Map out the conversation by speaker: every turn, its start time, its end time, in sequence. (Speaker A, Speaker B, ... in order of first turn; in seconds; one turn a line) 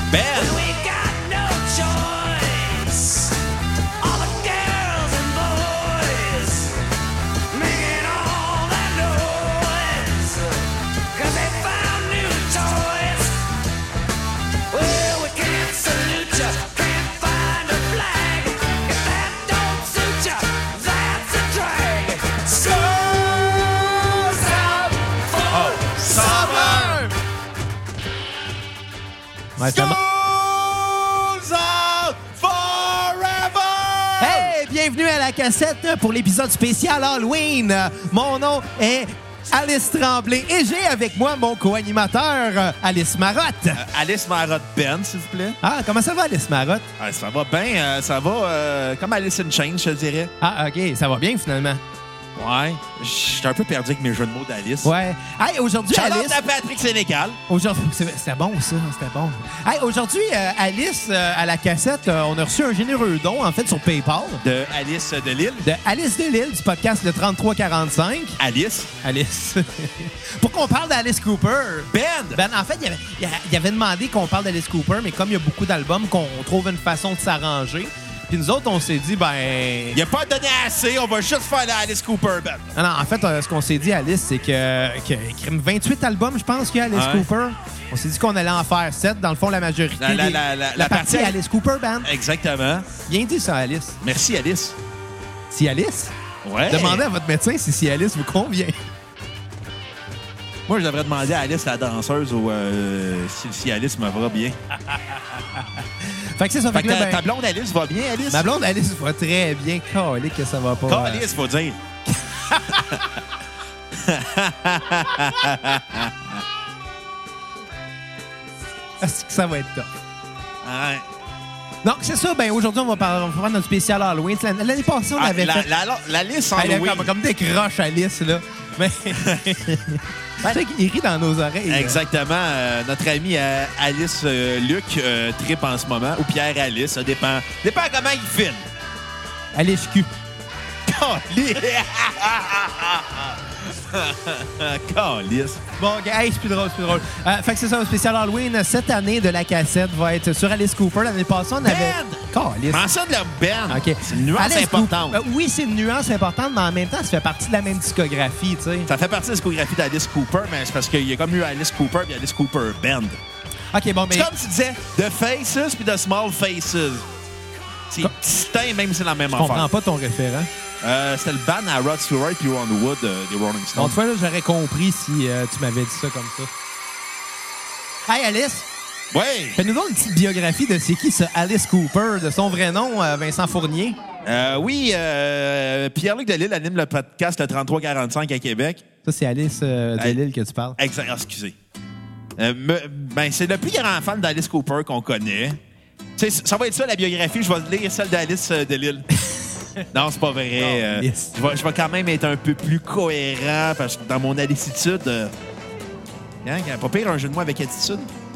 Speaker A: 0.1-0.6
Speaker B: 0.3-3.3
Speaker B: 4.0-6.7
Speaker B: 7.5-10.5
Speaker B: 11.1-13.4
Speaker B: 14.7-27.1
Speaker A: 25.5-27.1
Speaker C: 29.6-30.0
Speaker A: 29.6-34.5
Speaker C: 34.2-43.8
Speaker A: 43.7-45.6
Speaker C: 45.6-46.9
Speaker A: 47.0-50.3
Speaker C: 50.4-51.8
Speaker A: 52.3-54.9
Speaker C: 54.8-56.4
Speaker A: 55.9-57.4
Speaker C: 57.5-64.4
Speaker A: 64.4-65.7
Speaker C: 65.6-68.4
Speaker A: 68.4-68.9
Speaker C: 69.0-80.0
Speaker A: 71.9-72.4
Speaker A: 79.9-82.6
Speaker C: 82.7-92.1
Speaker A: 86.9-87.3
Speaker A: 90.0-91.4
Speaker A: 92.0-92.9
Speaker C: 93.0-94.0
Speaker A: 94.0-94.8
Speaker C: 95.5-96.1
Speaker A: 96.4-97.0
Speaker C: 96.7-98.8
Speaker A: 100.7-104.6
Speaker C: 105.5-107.2
Speaker A: 106.7-108.5
Speaker C: 108.3-111.2
Speaker A: 110.9-111.8
Speaker C: 112.1-113.0
Speaker A: 112.7-113.0
Speaker A: 113.9-116.4
Speaker C: 119.0-119.9
Speaker A: 120.6-121.0
Speaker C: 121.8-125.7
Speaker A: 125.2-127.1
Speaker C: 126.5-132.0
Speaker A: 131.7-138.6
Speaker C: 139.5-140.1
Speaker A: 140.9-145.6
Speaker C: 145.8-152.9
Speaker A: 151.6-155.2
Speaker C: 153.7-158.9
Speaker A: 158.9-163.2
Speaker C: 163.7-164.3
Speaker A: 164.1-167.1
Speaker A: 167.9-169.7
Speaker C: 169.3-170.5
Speaker A: 170.8-174.0
Speaker C: 173.7-176.5
Speaker C: 178.1-178.7
Speaker A: 179.1-179.6
Speaker C: 179.6-184.0
Speaker A: 184.2-188.8
Speaker C: 189.0-190.8
Speaker A: 190.8-191.5
Speaker A: 192.4-195.6
Speaker A: 196.2-199.1
Speaker A: 199.9-205.3
Speaker C: 200.6-201.4
Speaker A: 206.4-208.1